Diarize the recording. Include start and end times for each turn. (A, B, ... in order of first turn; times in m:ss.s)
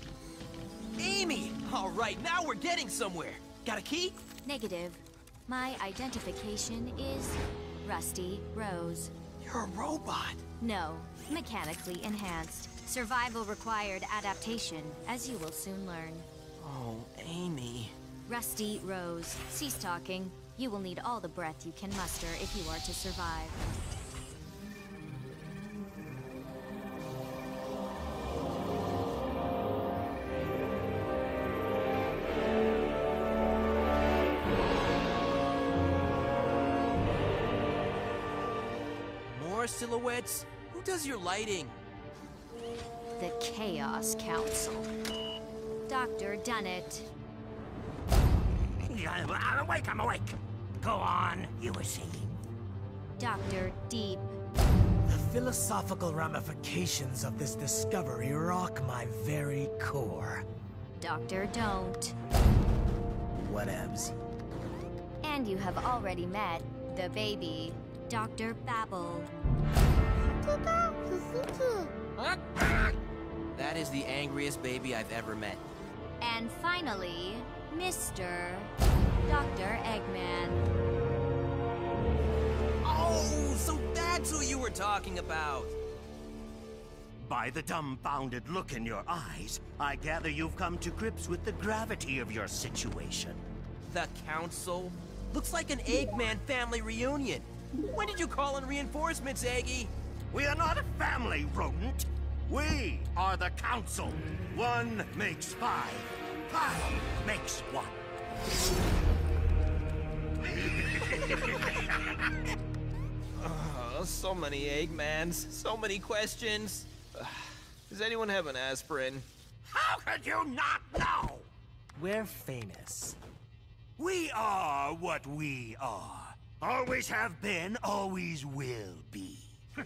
0:01.0-0:04.2 A
0:04.4-0:09.1 B
0:09.4-0:10.4 A
0:10.6-0:16.3 B
0:16.6-0:17.9 A
0:18.2-0:23.6 B
0:39.3-0:41.8 A
0:43.2-0:44.9 B
0:45.9-0:47.1 B
0:48.8-0:52.4 C
0:53.2-0:54.3 B
0:55.1-1:00.4 D
1:01.0-1:02.1 B
1:03.4-1:04.1 D
1:05.2-1:09.3 B
1:10.5-1:12.9 A
1:13.5-1:15.6 A
1:16.2-1:18.7 B
1:19.2-1:20.6 B
1:22.8-1:25.7 A
1:27.2-1:33.4 C
1:33.8-1:39.9 A
1:40.3-1:48.0 C
1:51.0-1:51.7 A
1:53.4-1:59.2 A
1:59.7-2:01.4 C
2:02.0-2:03.2 D
2:04.0-2:09.6 C